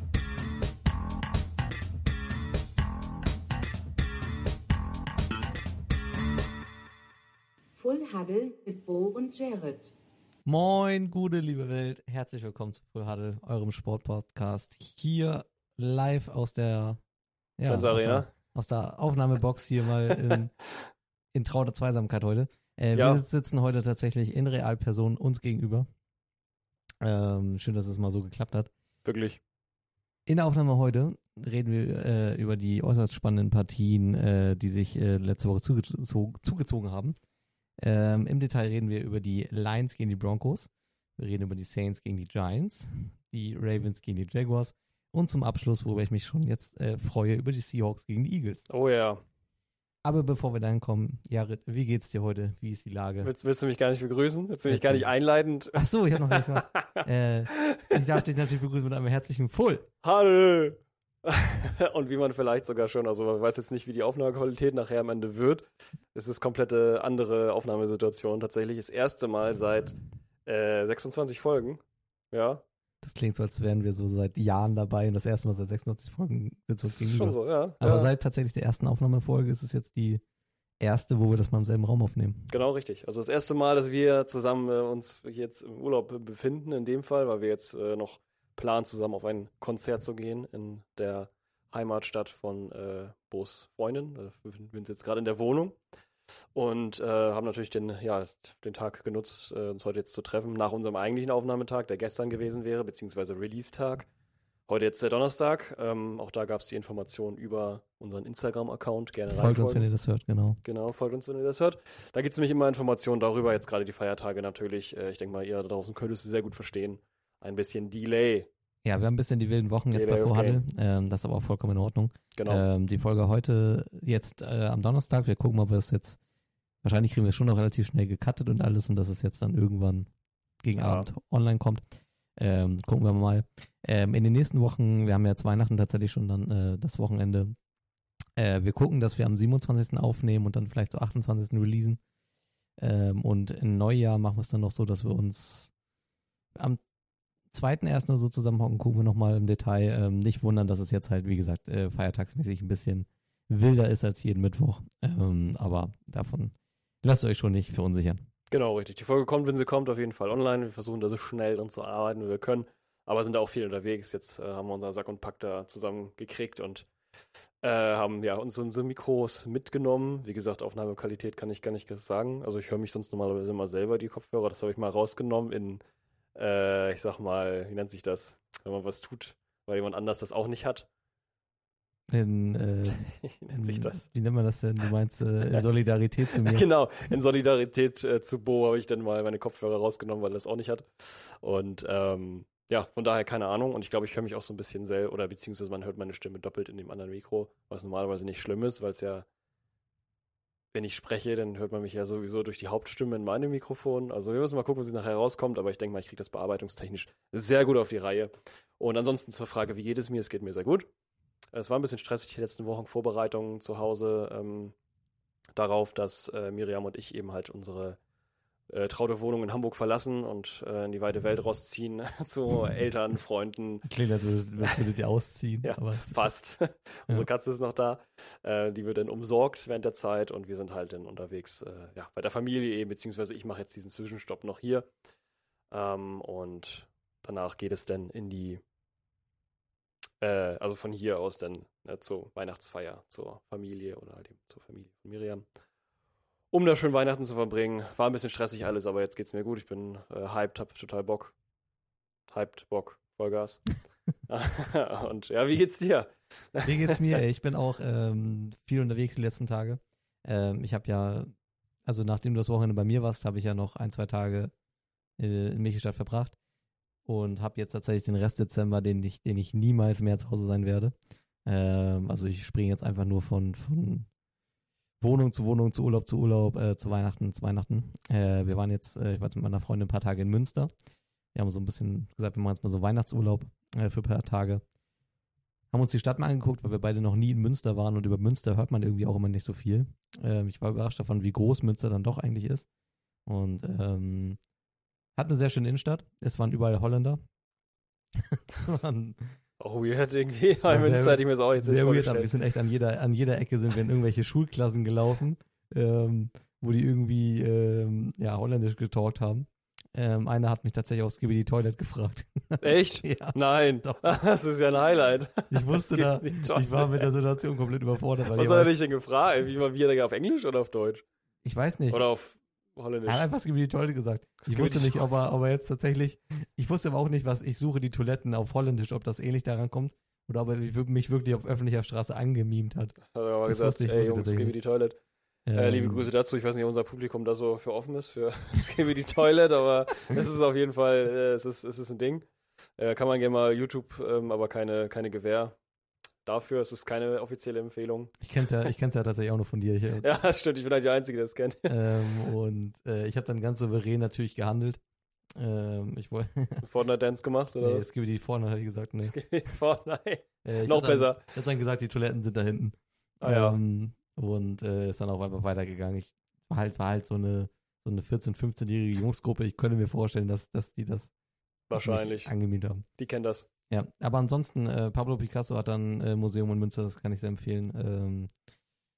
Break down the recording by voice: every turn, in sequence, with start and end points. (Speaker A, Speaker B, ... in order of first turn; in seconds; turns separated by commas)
Speaker A: 7.8-9.9, Speaker B: 10.5-17.0, Speaker B: 17.6-20.5, Speaker C: 17.7-18.3, Speaker C: 20.1-20.4, Speaker B: 21.3-25.9, Speaker C: 22.9-23.2, Speaker B: 27.0-28.7, Speaker C: 29.1-29.4, Speaker B: 30.3-37.2, Speaker B: 37.8-48.6, Speaker C: 48.7-49.2, Speaker B: 50.0-53.3, Speaker C: 53.2-58.2, Speaker B: 54.7-55.1, Speaker B: 55.7-59.9, Speaker C: 60.0-72.6, Speaker B: 73.0-80.2, Speaker C: 76.8-78.1, Speaker B: 80.8-82.5, Speaker C: 82.5-95.8, Speaker C: 96.5-104.1, Speaker C: 104.7-109.9, Speaker B: 109.3-110.6, Speaker C: 110.7-118.5, Speaker B: 118.8-126.2, Speaker C: 119.9-120.6, Speaker C: 122.3-122.6, Speaker B: 126.8-130.1, Speaker B: 130.6-131.8, Speaker C: 130.8-131.1, Speaker B: 132.4-137.6, Speaker B: 138.4-142.0, Speaker B: 142.8-145.7, Speaker B: 147.5-158.3, Speaker C: 158.5-166.9, Speaker C: 167.6-175.8, Speaker C: 176.3-180.9, Speaker B: 182.1-186.7, Speaker C: 182.9-184.1, Speaker C: 186.3-199.3, Speaker C: 200.7-210.9, Speaker C: 211.5-214.8, Speaker C: 215.5-218.0, Speaker C: 218.7-223.9, Speaker B: 223.8-226.3, Speaker C: 225.6-234.9, Speaker C: 235.7-238.6, Speaker C: 240.2-245.5, Speaker C: 246.5-251.3, Speaker C: 252.3-257.2, Speaker B: 256.6-261.3, Speaker B: 261.9-264.5, Speaker B: 265.2-266.4, Speaker B: 267.1-270.9, Speaker B: 271.5-274.1, Speaker B: 275.0-280.7, Speaker B: 281.3-284.6, Speaker B: 285.7-292.7, Speaker B: 293.3-294.4, Speaker B: 295.2-297.2, Speaker B: 298.3-299.4, Speaker C: 299.6-302.3, Speaker B: 300.5-314.0, Speaker C: 312.6-317.1, Speaker B: 315.5-318.8, Speaker C: 318.3-321.0, Speaker B: 321.4-322.0, Speaker C: 321.9-323.3, Speaker B: 323.1-334.6, Speaker C: 324.4-325.1, Speaker C: 333.1-335.0, Speaker B: 335.5-336.1, Speaker C: 335.6-342.3, Speaker C: 342.8-345.6, Speaker C: 346.2-348.1, Speaker B: 348.2-350.1, Speaker C: 350.0-351.8, Speaker B: 351.7-354.8, Speaker B: 355.4-356.7, Speaker C: 356.6-357.9, Speaker B: 357.6-359.2, Speaker C: 359.1-361.2, Speaker B: 360.4-371.1, Speaker C: 363.2-363.6, Speaker C: 371.7-372.3, Speaker B: 371.7-372.9, Speaker C: 373.0-373.5, Speaker B: 373.7-378.3